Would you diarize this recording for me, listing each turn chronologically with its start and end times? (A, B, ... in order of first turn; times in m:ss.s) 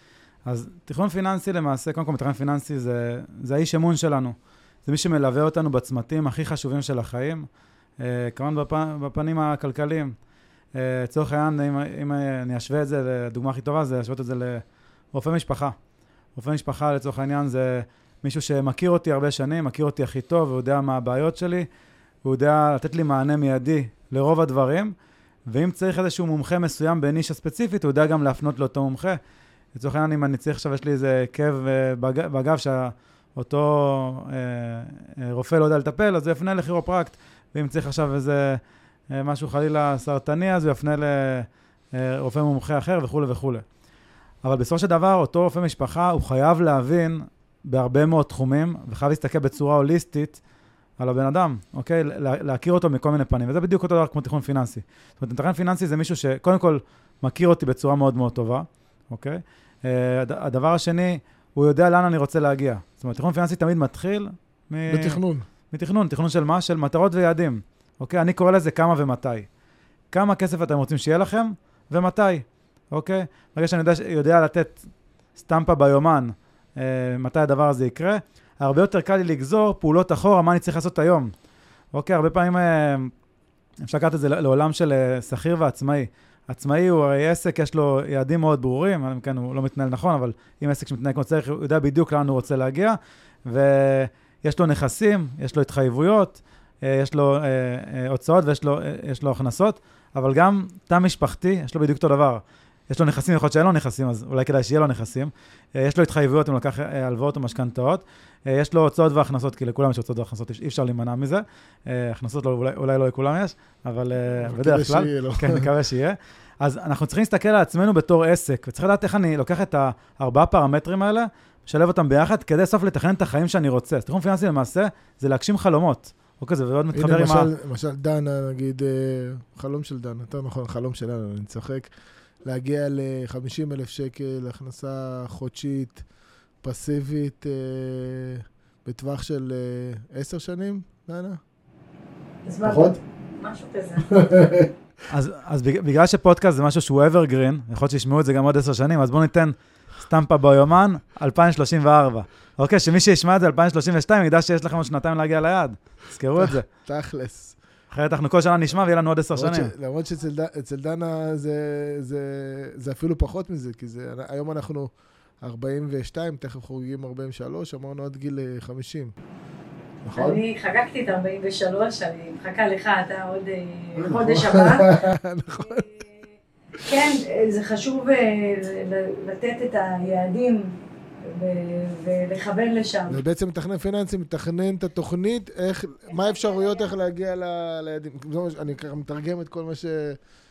0:00.5-0:07.5 A
0:08.0-0:10.2 A
0:10.8-0:15.8 A
0:16.4-0:21.7 A
0:22.2-0:24.9 A
0:25.5-0:29.2 A
0:29.8-0:43.6 A
0:44.4-0:50.4 A
0:51.0-1:09.5 A
1:04.9-1:05.5 B
1:10.1-1:14.8 A
1:15.4-1:21.3 A
1:21.9-1:23.1 A
1:23.8-2:07.5 A
1:54.4-1:55.7 B
2:06.9-2:11.9 B
2:12.4-2:16.0 B
2:16.6-2:21.4 B
2:22.5-2:24.2 C
2:22.6-2:23.0 B
2:24.1-2:24.7 B
2:25.1-2:36.7 A
2:36.4-2:37.6 B
2:37.9-2:39.7 A
2:39.4-2:44.9 B
2:45.4-2:49.1 B
2:50.0-2:50.4 B
2:50.1-2:55.0 C
2:54.0-2:55.9 B
2:55.7-2:56.0 C
2:56.8-3:00.7 C
3:01.2-3:03.2 C
3:03.1-3:10.2 B